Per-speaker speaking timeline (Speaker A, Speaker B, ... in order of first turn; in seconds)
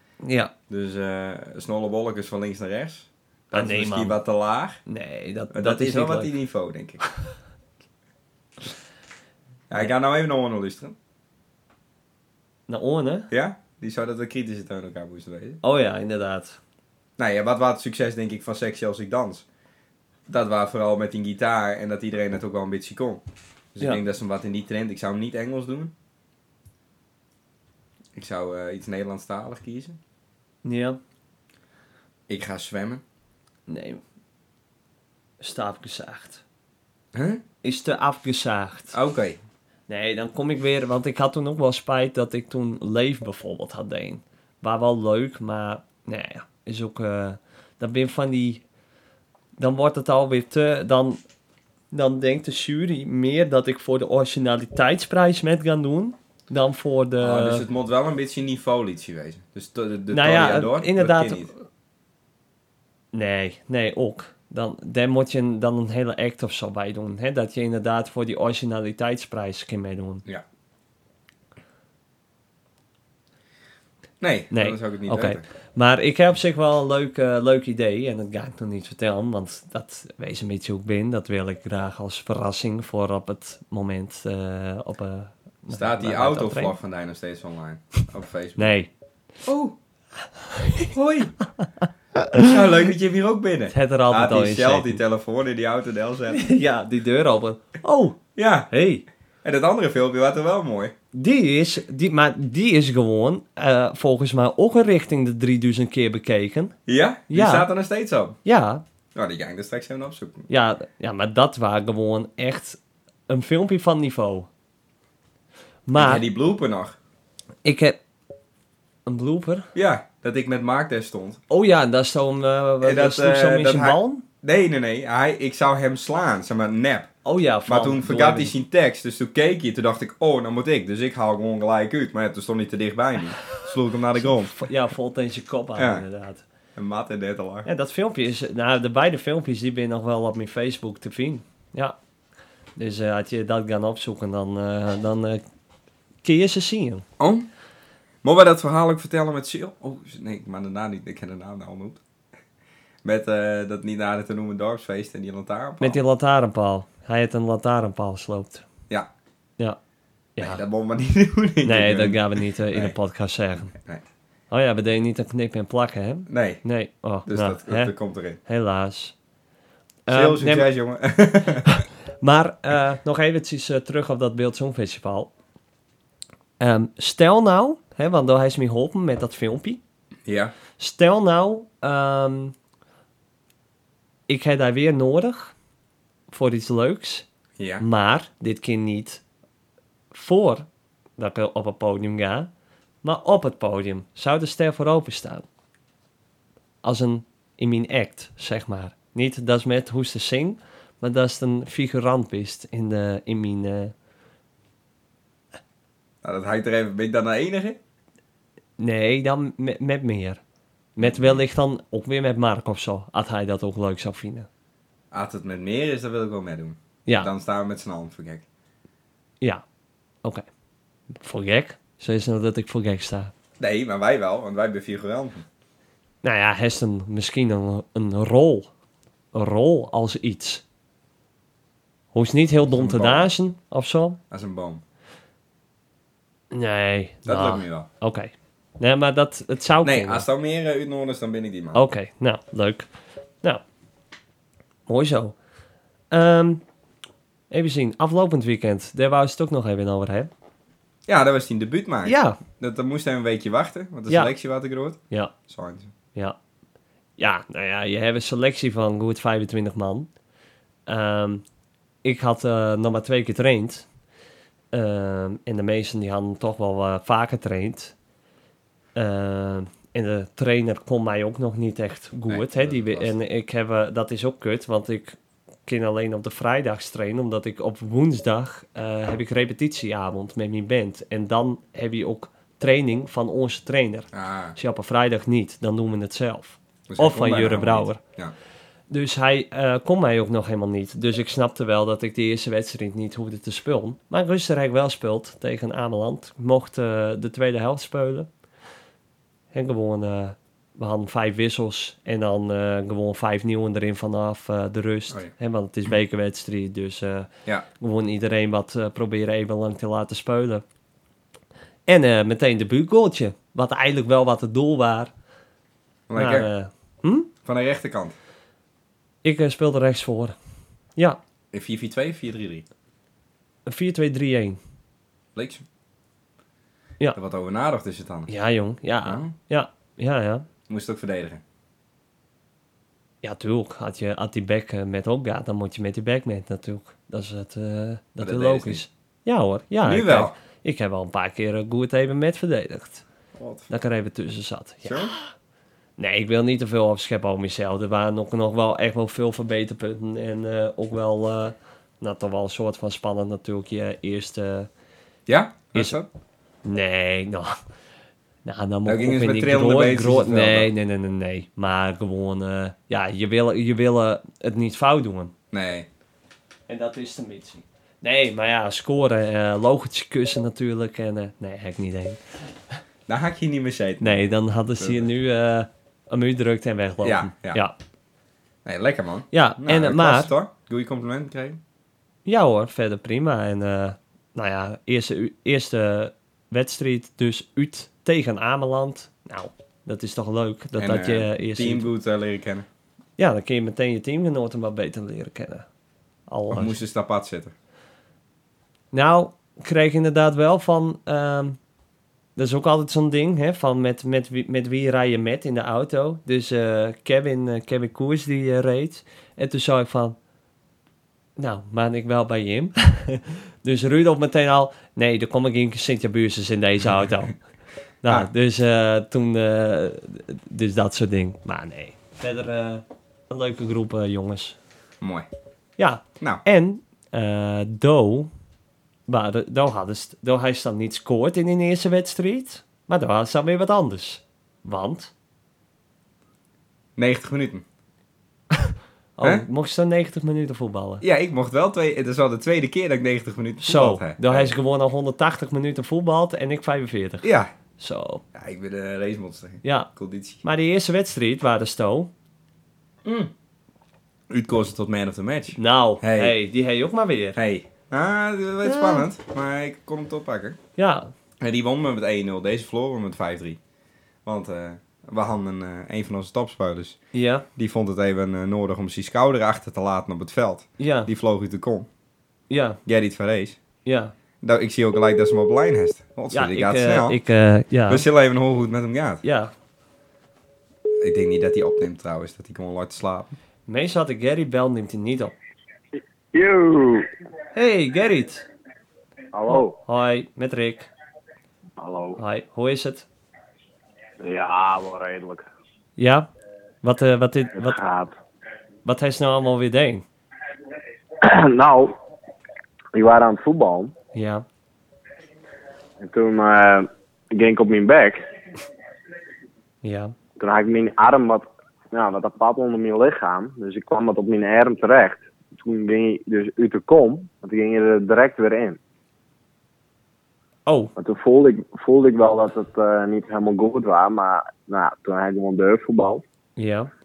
Speaker A: 0.2-0.5, 3.5-4.2, 4.8-6.3, 12.7-13.3, 15.6-16.6, 30.6-31.0, 33.7-34.0, 35.4-36.4, 37.6-39.0, 39.9-48.6, 49.6-51.2, 51.9-57.6, 60.1-61.5, 63.1-70.2, 74.5-86.8, 88.6-88.9, 90.5-90.9, 93.7-95.0, 96.3-99.0, 101.1-106.7, 107.3-107.7, 108.4-108.8, 110.5-114.5, 115.8-116.2, 117.6-118.0, 119.0-119.7, 121.5-124.2, 127.2-128.5, 134.2-136.4, 137.6-141.9, 142.8-145.4, 146.2-147.0, 155.8-158.6, 160.3-160.6, 161.6-163.7, 164.5-167.9, 168.4-169.1, 170.1-170.7, 171.7-175.3, 176.6-179.8, 180.8-182.5, 184.3-185.5, 186.3-187.2, 187.8-189.2, 190.1-190.7, 191.2-192.5, 193.0-195.4, 196.8-203.9, 208.8-210.4, 210.9-214.5, 217.1-217.3, 221.2-223.3, 226.2-228.7, 229.3-230.6, 232.1-234.2, 236.5-240.2, 241.7-242.9, 244.9-245.3, 246.1-246.6, 247.5-250.3, 252.0-252.4, 254.1-254.3, 257.2-260.1, 260.9-261.4, 262.0-263.9, 264.7-267.9, 268.9-288.0, 288.9-298.3, 299.5-310.6, 311.9-315.1, 316.1-317.3, 319.2-320.4, 323.7-324.6, 328.3-330.4, 333.2-343.0, 343.7-345.3, 346.0-354.7, 356.6-357.6, 358.4-365.3, 366.7-372.4, 374.0-377.7, 379.3-380.3, 382.2-391.9, 393.2-395.6, 396.3-396.8, 398.9-401.6, 402.4-410.1, 411.4-417.3, 418.0-424.6, 425.8-428.3, 429.1-435.1, 438.5-441.0, 443.6-448.2, 449.6-449.9, 450.4-452.1, 455.6-457.4, 458.6-459.1, 460.8-461.1, 467.1-467.4, 470.8-471.1, 472.5-472.8, 473.8-474.1, 476.3-478.0, 479.2-479.5, 483.7-485.3, 487.5-488.5, 489.5-490.9, 492.2-493.1, 496.0-496.3, 496.8-497.8, 498.8-500.1, 504.1-504.4, 509.8-510.1, 520.6-520.9, 526.5-526.9
Speaker B: 0.7-4.8, 5.5-7.0, 9.7-10.9, 13.3-15.6, 17.2-19.4, 20.3-23.2, 23.7-25.9, 28.1-30.0, 32.3-33.0, 37.1-37.4, 38.9-39.4, 57.2-61.5, 74.2-75.4, 85.7-88.7, 89.4-89.7, 90.9-91.3, 92.3-96.4, 98.3-98.7, 99.4-100.9, 106.9-108.4, 109.1-110.5, 115.9-117.0, 119.7-121.4, 122.8-127.1, 127.7-134.6, 135.8-136.0, 136.8-137.7, 147.2-147.5, 148.2-152.0, 153.0-156.0, 160.4-162.9, 163.7-164.0, 166.3-166.6, 167.2-168.4, 170.1-171.8, 180.2-180.5, 187.6-187.8, 206.2-207.8, 211.0-211.4, 215.1-218.4, 223.6-225.4, 232.7-233.3, 234.3-234.8, 237.2-237.9, 239.8-241.8, 251.1-255.9, 272.3-273.1, 284.1-284.6, 286.9-288.3, 316.1-316.5, 317.4-318.1, 321.5-322.6, 325.3-325.6, 327.1-328.3, 329.0-329.3, 330.7-331.4, 338.2-338.8, 339.8-340.3, 343.3-343.7, 344.8-345.1, 355.3-356.1, 358.9-360.7, 365.5-365.9, 373.1-374.2, 374.8-375.1, 377.0-377.6, 378.6-381.6, 390.8-392.6, 396.5-397.5, 425.0-425.3, 436.9-437.6, 441.0-444.5, 447.2-447.5, 448.3-450.4, 453.0-453.3, 454.3-456.3, 457.4-460.6, 461.4-463.6, 464.2-467.0, 467.6-471.9, 472.9-473.6, 474.4-477.2, 477.9-479.2, 481.0-483.3
Speaker C: 486.0-487.1, 489.3-489.8, 491.8-492.2, 494.2-495.4, 497.6-498.1, 501.2-501.9, 502.9-503.9, 506.0-508.2, 510.4-518.8, 521.0-526.2